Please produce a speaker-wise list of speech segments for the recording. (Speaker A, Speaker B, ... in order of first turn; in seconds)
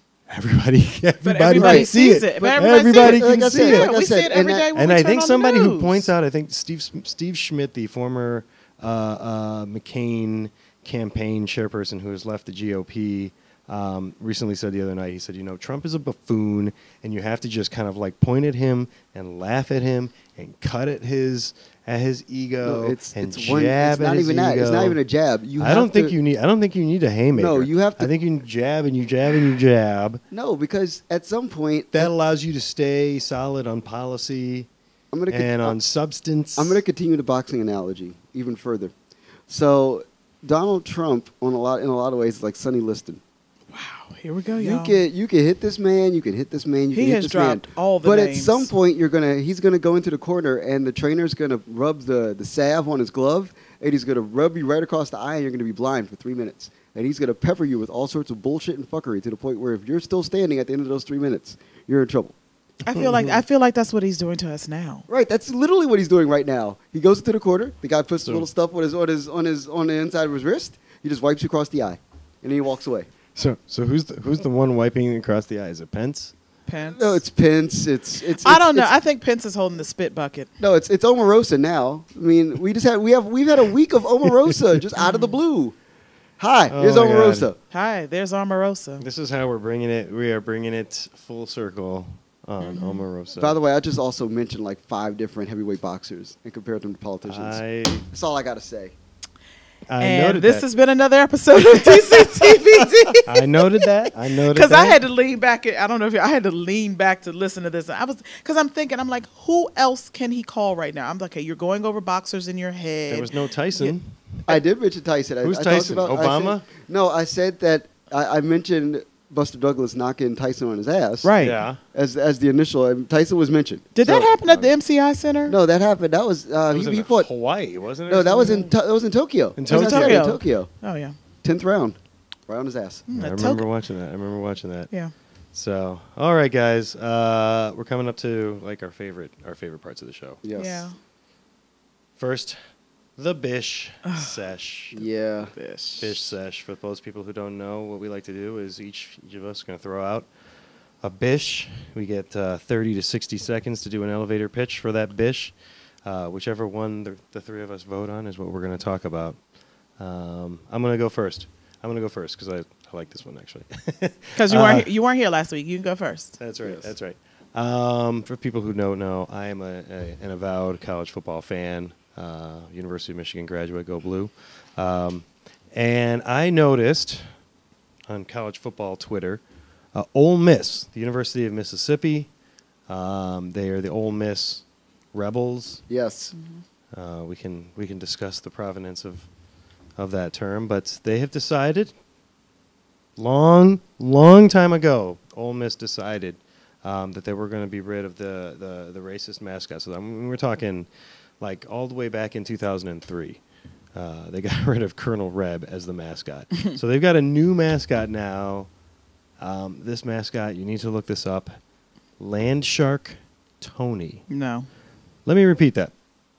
Speaker A: 0.3-3.9, 4.8-25.0, 25.6-30.2, 31.9-34.7, 35.3-36.8, 62.9-63.4, 73.3-76.3, 86.7-87.5, 89.0-93.6, 97.3-98.1, 99.9-100.7, 103.2-105.0, 113.1-114.2, 115.4-116.7, 121.4-121.8, 124.2-124.7, 126.7-128.7, 129.6-130.3, 133.1-134.9, 135.5-140.4, 142.2-142.6, 143.2-145.0, 146.0-150.3, 151.0-155.5, 156.1-159.4, 160.0-164.9, 166.4-177.2, 178.1-179.4, 179.9-182.3, 182.9-185.8, 186.9-189.3, 190.0-191.9, 193.2-200.9, 201.4-203.4, 203.9-208.7, 209.4-211.6, 212.2-214.2, 215.3-215.9
Speaker B: 1.2-6.1, 43.7-45.0, 46.9-48.7, 62.9-65.1, 76.7-77.2, 78.4-80.5, 85.0-85.4, 87.7-89.0, 92.6-93.0, 100.0-114.0, 121.2-121.6, 124.0-125.6, 129.7-131.2, 133.1-133.7, 140.6-141.0, 144.1-144.3, 145.6-146.3, 164.4-166.4, 186.3-186.6, 214.3-214.7
Speaker C: 1.6-4.7, 22.6-26.2, 27.3-28.1, 30.3-32.1, 35.1-35.8, 36.6-38.9, 39.5-43.2, 44.6-62.4, 65.1-73.1, 76.9-78.9, 80.6-85.8, 86.4-87.6, 93.4-99.0, 114.5-121.3, 121.9-124.3, 125.5-127.3, 128.1-130.7, 131.4-132.0, 132.5-133.1, 140.4-140.9, 144.9-145.5, 166.6-166.9, 185.9-186.3